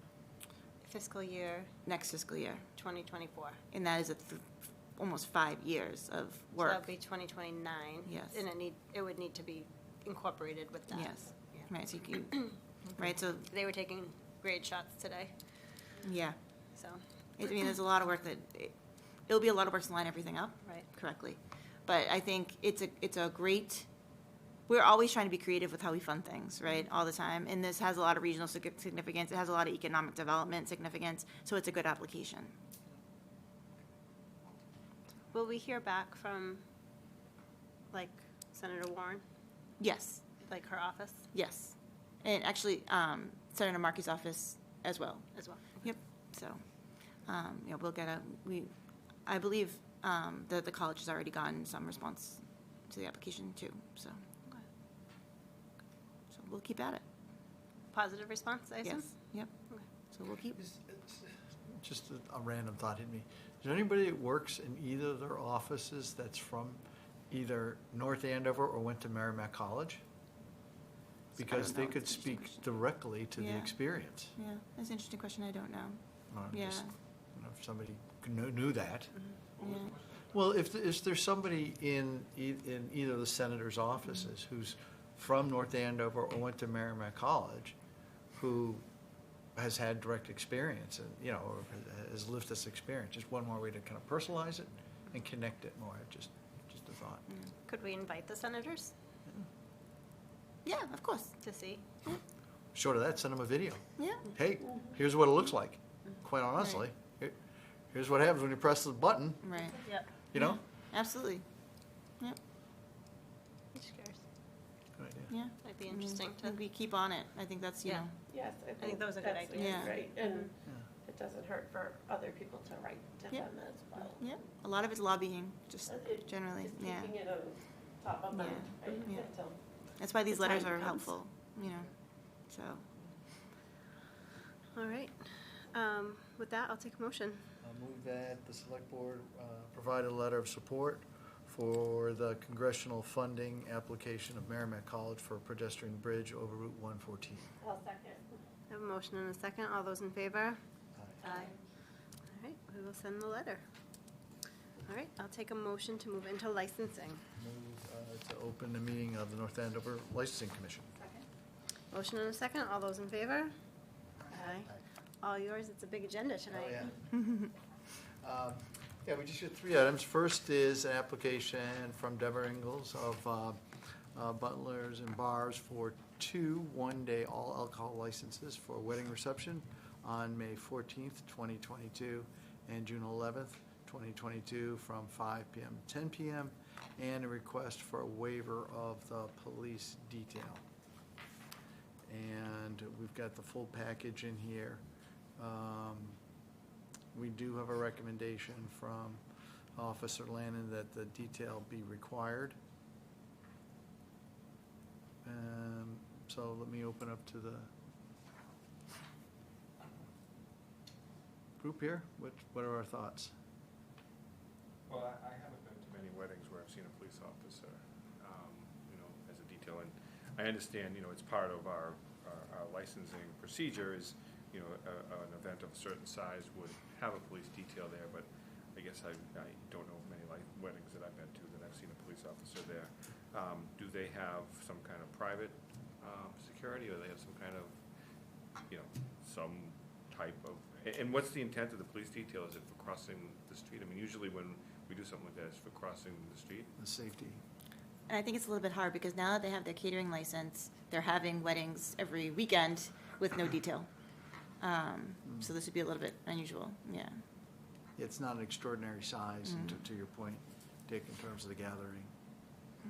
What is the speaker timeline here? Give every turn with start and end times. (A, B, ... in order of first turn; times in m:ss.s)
0:00.8-0:01.7 A
0:01.8-0:02.6 B
0:02.8-0:03.6 A
0:03.7-0:06.9 B
0:06.6-0:11.7 A
0:08.1-0:08.4 B
0:10.9-0:13.5 B
0:12.2-0:12.6 A
0:13.4-0:15.3 A
0:16.0-0:16.4 B
0:16.8-0:17.6 A
0:17.4-0:18.8 B
0:19.3-0:23.9 B
0:20.6-0:20.9 A
0:24.7-0:32.5 B
0:35.3-0:36.6 A
0:37.9-0:39.2 A
0:39.8-0:40.2 B
0:40.4-0:41.3 A
0:41.3-0:46.6 B
0:45.3-0:45.9 A
0:47.2-0:48.7 B
0:49.3-0:54.6 B
0:56.3-0:57.0 B
0:57.9-0:59.2 A
0:58.8-0:59.5 B
1:00.1-1:00.6 B
1:00.6-1:10.0 C
1:11.4-1:12.6 B
1:11.4-1:14.4 C
1:13.4-1:13.8 B
1:14.4-1:16.9 B
1:16.3-1:19.1 C
1:19.6-1:20.3 D
1:19.6-1:19.9 B
1:20.3-1:27.8 C
1:28.4-1:28.8 C
1:29.6-1:37.3 C
1:37.7-1:38.9 A
1:40.6-1:41.4 B
1:41.4-1:41.8 A
1:42.7-1:47.4 C
1:44.0-1:44.2 B
1:47.9-1:49.4 C
1:49.4-1:51.5 B
1:50.3-1:50.6 C
1:53.7-1:54.2 A
1:55.0-1:55.3 C
1:55.3-1:58.1 B
1:55.6-1:56.6 A
1:57.8-1:58.2 A
1:58.3-2:00.5 E
1:58.8-2:00.5 A
1:59.6-2:00.0 B
2:01.0-2:04.4 E
2:04.2-2:07.2 B
2:05.9-2:09.6 E
2:08.3-2:09.3 B
2:10.0-2:11.9 B
2:10.3-2:11.1 E
2:12.5-2:12.9 B
2:14.8-2:17.4 A
2:17.6-2:27.5 C
2:27.6-2:28.2 E
2:28.7-2:30.6 A
2:31.0-2:31.3 C
2:31.2-2:31.5 A
2:32.4-2:33.6 A
2:34.8-2:37.2 A
2:37.4-2:41.0 C
2:41.9-2:43.5 A
2:44.3-2:44.7 A
2:45.2-2:46.9 A
2:46.5-2:47.1 C
2:47.2-2:47.5 B
2:48.2-2:53.6 C
2:54.1-3:10.6 C
3:12.1-3:14.8 C
3:15.4-3:16.2 C
3:17.1-3:19.2 C
3:19.8-3:22.6 C
3:25.2-3:27.7 C
3:31.6-3:33.3 C
3:34.9-3:57.8 D
3:58.7-4:06.7 D
4:06.8-4:07.4 C
4:08.1-4:13.9 B
4:14.6-4:17.2 B
4:15.2-4:15.5 C
4:18.0-4:22.1 C
4:19.4-4:19.8 B